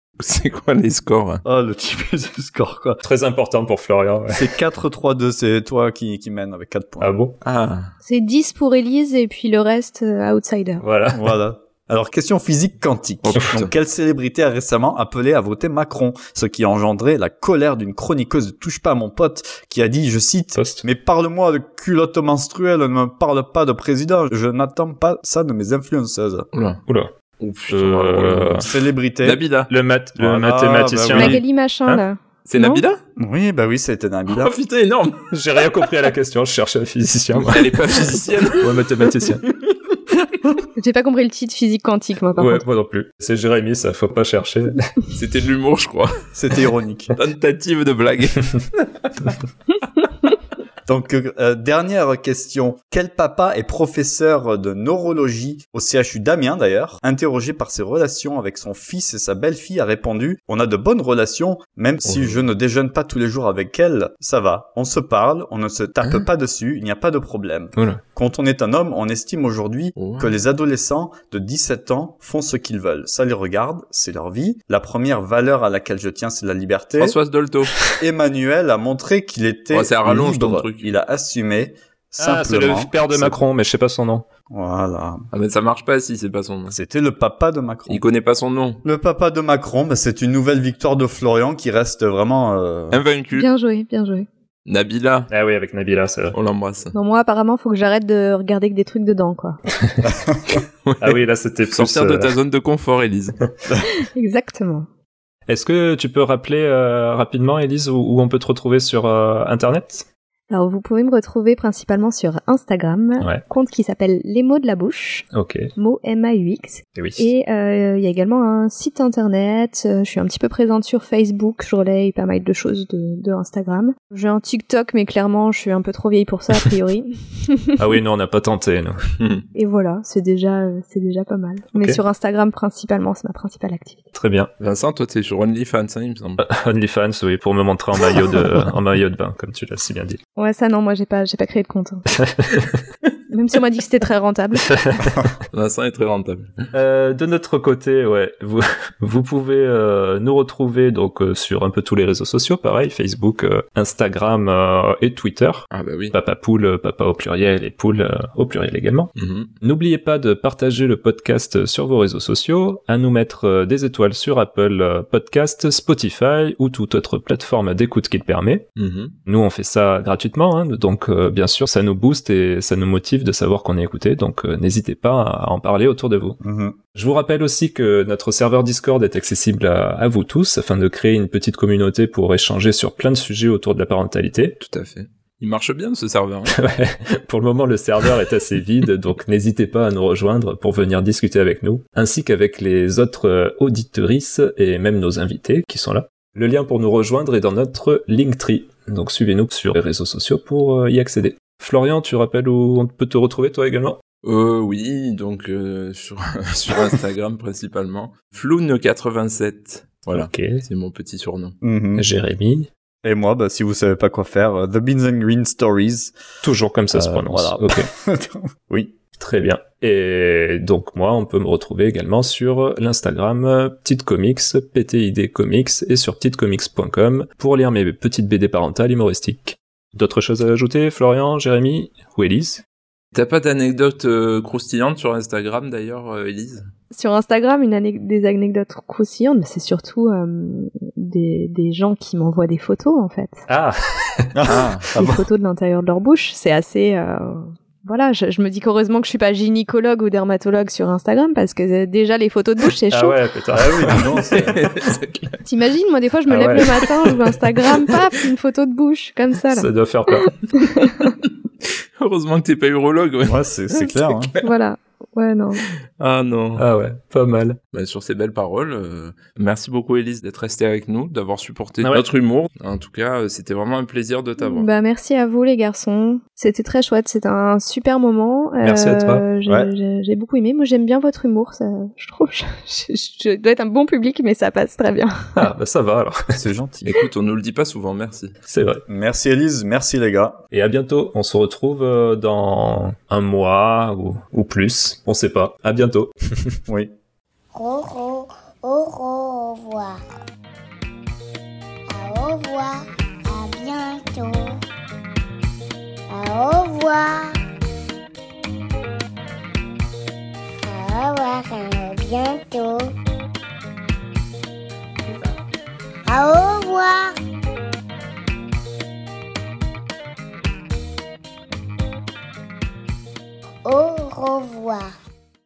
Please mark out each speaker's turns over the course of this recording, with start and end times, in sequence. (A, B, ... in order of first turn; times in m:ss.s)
0:00.2-0:01.4 A
0:01.4-0:03.0 B
0:03.0-0:04.6 C
0:04.3-0:07.1 B
0:07.0-0:07.4 C
0:07.4-0:07.9 A
0:08.0-0:10.8 D
0:10.8-0:11.4 C
0:11.1-0:26.5 B
0:13.2-0:13.7 A
0:13.4-0:13.6 C
0:20.6-0:20.8 C
0:26.5-0:26.8 A
0:26.9-0:27.1 C
0:27.4-0:28.7 A
0:27.7-0:28.7 C
0:28.6-0:29.4 B
0:29.2-0:29.7 A
0:29.7-0:32.0 C
0:30.2-0:31.4 B
0:31.1-0:32.8 D
0:32.5-0:33.0 A
0:33.2-0:34.6 B
0:34.3-0:35.3 A
0:35.3-0:39.4 C
0:37.4-0:39.4 A
0:40.8-0:42.6 D
0:42.4-0:44.9 C
0:45.2-0:46.1 A
0:46.3-0:47.2 B
0:47.2-0:48.8 A
0:50.9-1:17.2 B
1:02.0-1:02.4 A
1:06.0-1:06.3 A
1:10.0-1:10.3 A
1:17.0-1:17.8 A
1:17.9-1:23.4 B
1:19.7-1:20.8 A
1:22.2-1:24.3 C
1:24.5-1:25.3 B
1:25.3-1:26.8 A
1:26.7-1:28.0 B
1:27.9-1:28.8 A
1:28.8-1:33.0 B
1:32.9-1:33.5 A
1:33.3-1:34.3 D
1:34.7-1:35.3 A
1:35.3-1:36.4 C
1:36.3-1:36.9 A
1:36.9-1:39.6 D
1:39.8-1:40.1 C
1:40.9-1:43.4 A
1:41.0-1:42.4 C
1:43.8-1:44.9 D
1:45.5-1:50.1 C
1:50.5-2:07.8 D
1:55.3-1:55.7 C
1:57.0-1:57.2 C
2:07.8-2:09.1 C
2:09.2-2:09.4 A
2:09.6-2:14.0 D
2:11.7-2:12.0 C
2:14.1-2:14.5 C
2:14.6-2:16.4 A
2:16.4-2:20.2 C
2:20.4-2:22.1 D
2:22.2-2:22.6 C
2:23.3-2:24.7 D
2:24.7-2:25.2 C
2:25.5-2:26.7 A
2:26.7-2:48.7 C
2:35.7-2:36.2 A
2:39.2-2:39.5 A
2:48.8-2:49.2 A
2:49.3-2:56.4 C
2:56.4-2:56.8 B
2:57.0-3:04.6 C
3:04.6-3:06.6 A
3:06.5-3:24.0 C
3:24.2-3:31.6 A
3:30.1-3:30.6 C
3:31.6-3:32.1 B
3:32.0-3:32.7 C
3:33.0-3:36.2 B
3:36.4-3:37.9 C
3:36.9-3:39.0 B
3:39.2-3:52.6 C
3:53.1-3:56.7 A
3:56.9-4:03.4 D
4:03.5-4:04.4 C
4:04.4-4:05.2 B
4:04.5-4:04.9 A
4:04.9-4:13.2 D
4:12.9-4:14.1 C
4:13.5-4:14.6 B
4:14.0-4:15.4 A
4:15.4-4:21.0 D
4:16.3-4:16.9 C
4:19.5-4:20.3 C
4:22.0-4:24.4 A
4:23.3-4:24.3 B
4:24.4-4:25.6 D
4:26.0-4:26.6 A
4:26.6-4:27.6 C
4:27.7-4:34.7 A
4:34.4-4:45.3 D
4:38.6-4:39.2 C
4:45.4-4:46.4 C
4:46.3-4:47.0 B
4:46.8-4:48.4 A
4:48.5-4:48.8 C
4:48.9-4:50.4 B
4:50.5-4:56.6 C
4:56.7-4:56.9 B
4:57.5-5:00.0 E
5:01.9-5:04.6 E
5:06.1-5:07.4 E
5:10.6-5:13.0 E
5:15.1-5:15.3 E
5:16.1-5:17.1 E
5:23.6-5:24.9 E